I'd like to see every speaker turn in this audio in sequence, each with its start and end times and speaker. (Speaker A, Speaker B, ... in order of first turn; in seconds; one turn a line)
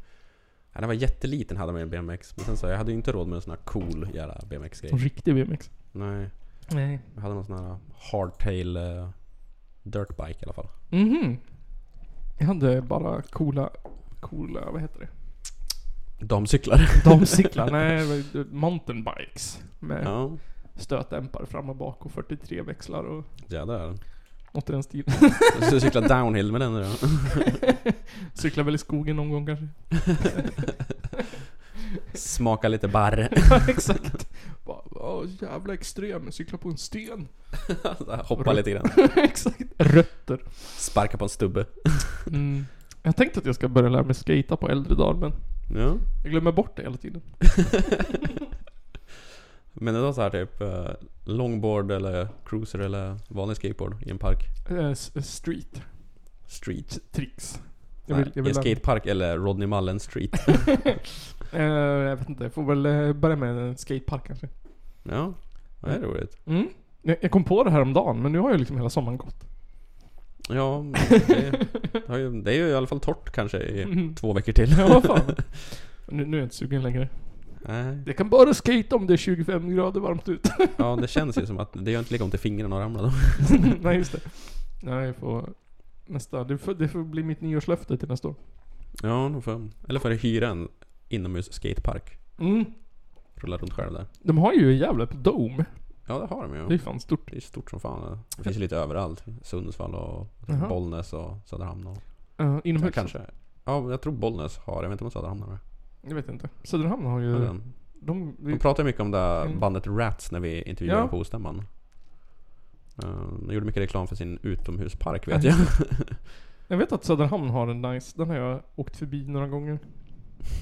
Speaker A: 0.7-5.3
Speaker B: 4.9-5.9
Speaker A: 5.9-10.7
Speaker B: 6.7-7.0
Speaker B: 10.9-15.4
Speaker A: 16.2-17.5
Speaker B: 17.0-23.7
Speaker A: 20.0-20.4
Speaker A: 23.4-24.1
Speaker B: 24.5-25.9
Speaker A: 25.5-27.5
Speaker B: 28.3-30.7
Speaker A: 32.1-33.9
Speaker B: 33.5-37.7
Speaker A: 37.7-39.4
Speaker B: 38.4-40.8
Speaker A: 40.8-42.3
Speaker B: 42.3-47.8
Speaker A: 45.7-46.1
Speaker A: 49.8-54.5
Speaker B: 54.6-58.8
Speaker A: 56.5-57.1
Speaker A: 58.1-61.0
Speaker B: 61.5-65.0
Speaker A: 65.0-66.4
Speaker B: 65.8-69.5
Speaker A: 70.5-75.4
Speaker B: 73.9-81.2
Speaker A: 77.6-78.1
Speaker A: 80.8-83.8
Speaker B: 83.7-88.4
Speaker A: 89.0-92.5
Speaker B: 92.4-92.8
Speaker A: 93.3-94.1
Speaker B: 94.2-97.8
Speaker A: 96.1-105.6
Speaker B: 100.5-100.8
Speaker B: 102.4-103.2
Speaker B: 106.0-110.3
Speaker A: 107.3-111.7
Speaker B: 110.8-111.2
Speaker A: 113.0-116.2
Speaker B: 115.3-120.4